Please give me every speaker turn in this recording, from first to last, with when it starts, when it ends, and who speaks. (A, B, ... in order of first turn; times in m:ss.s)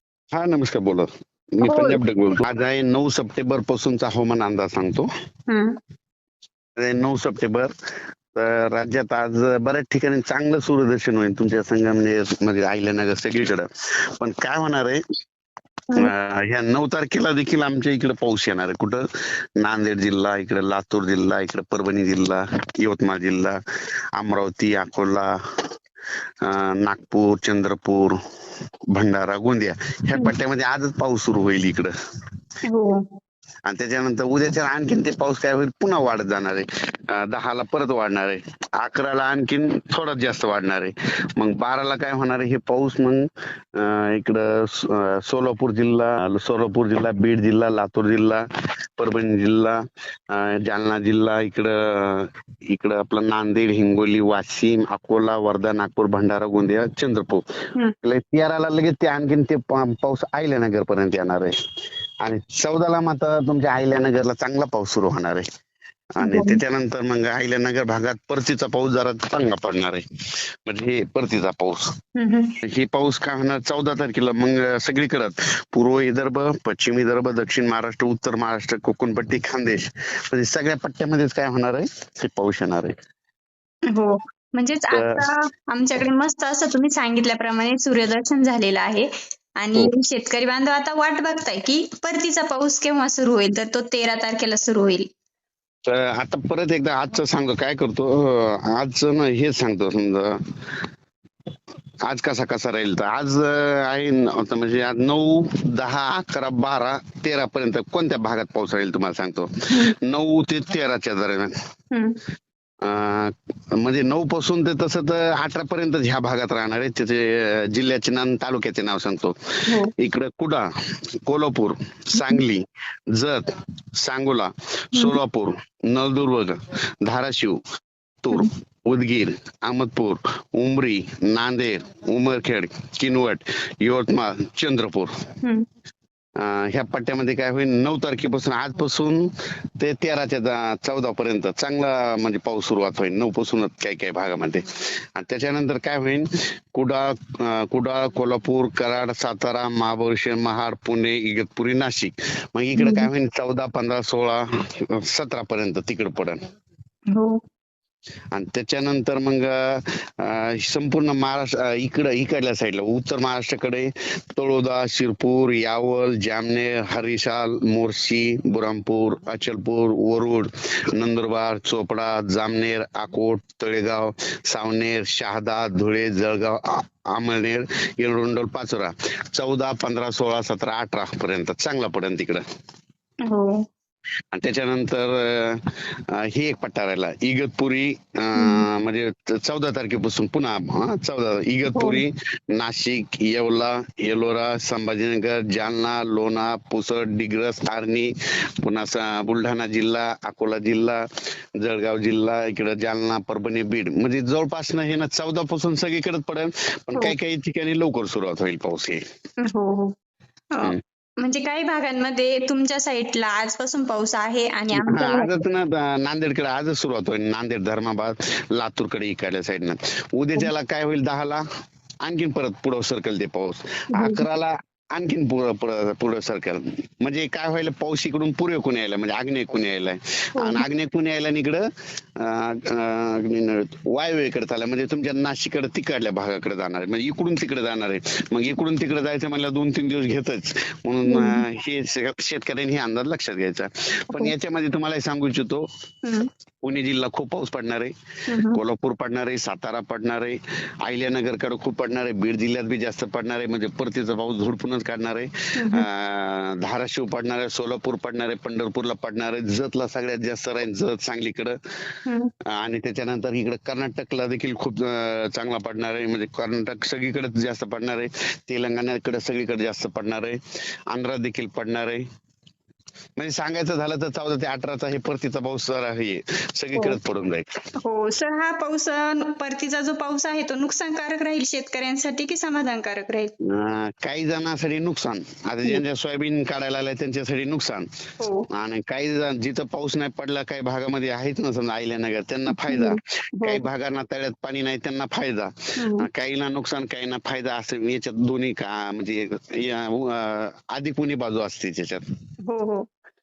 0:00.3-0:05.1 A
0:01.6-0:02.0 B
0:05.5-0:05.7 B
0:06.8-0:07.7 A
0:08.3-0:13.7 A
0:14.2-0:15.0 A
0:16.0-0:19.0 A
0:19.6-0:23.6 A
0:24.2-0:25.3 A
0:26.4-0:28.1 A
0:28.9-0:31.9 A
0:32.6-0:33.0 B
0:33.6-0:48.4 A
0:49.0-0:49.8 A
0:50.3-0:57.4 A
0:58.0-1:01.5 A
1:02.2-1:05.4 A
1:06.2-1:10.0 A
1:06.2-1:06.6 B
1:10.6-1:11.9 A
1:12.2-1:12.5 B
1:12.6-1:22.9 A
1:23.9-1:29.1 B
1:24.9-1:25.2 A
1:29.6-1:35.1 B
1:35.9-1:40.4 A
1:42.0-1:51.5 A
1:51.9-1:52.2 B
1:52.8-1:59.3 A
2:00.0-2:00.6 A
2:01.2-2:03.5 A
2:04.0-2:07.6 A
2:08.2-2:15.1 A
2:16.4-2:24.6 A
2:25.1-2:36.4 A
2:32.8-2:33.1 B
2:37.1-2:37.4 B
2:38.3-3:02.4 A
3:03.2-3:03.5 B
3:04.3-3:05.6 A
3:06.1-3:18.1 A
3:08.4-3:08.6 B
3:11.7-3:12.0 B
3:18.6-3:21.0 A
3:21.6-3:29.0 A
3:29.4-3:29.9 B
3:30.5-3:35.3 B
3:34.7-3:41.4 A
3:42.0-3:51.6 A
3:43.9-3:44.2 B
3:50.4-3:50.6 B
3:52.2-4:05.6 A
4:01.0-4:01.4 B
4:06.6-4:07.9 A
4:08.3-4:08.6 B
4:08.5-4:21.6 A
4:15.6-4:15.8 B
4:22.0-4:22.3 B
4:22.5-4:30.4 A
4:30.9-4:32.0 A
4:33.2-4:37.4 A
4:37.8-4:43.3 B
4:43.5-4:47.9 A
4:48.2-4:48.5 B
4:48.5-5:02.0 A
4:52.5-4:53.6 B
4:55.8-4:56.1 B
5:02.5-5:02.9 B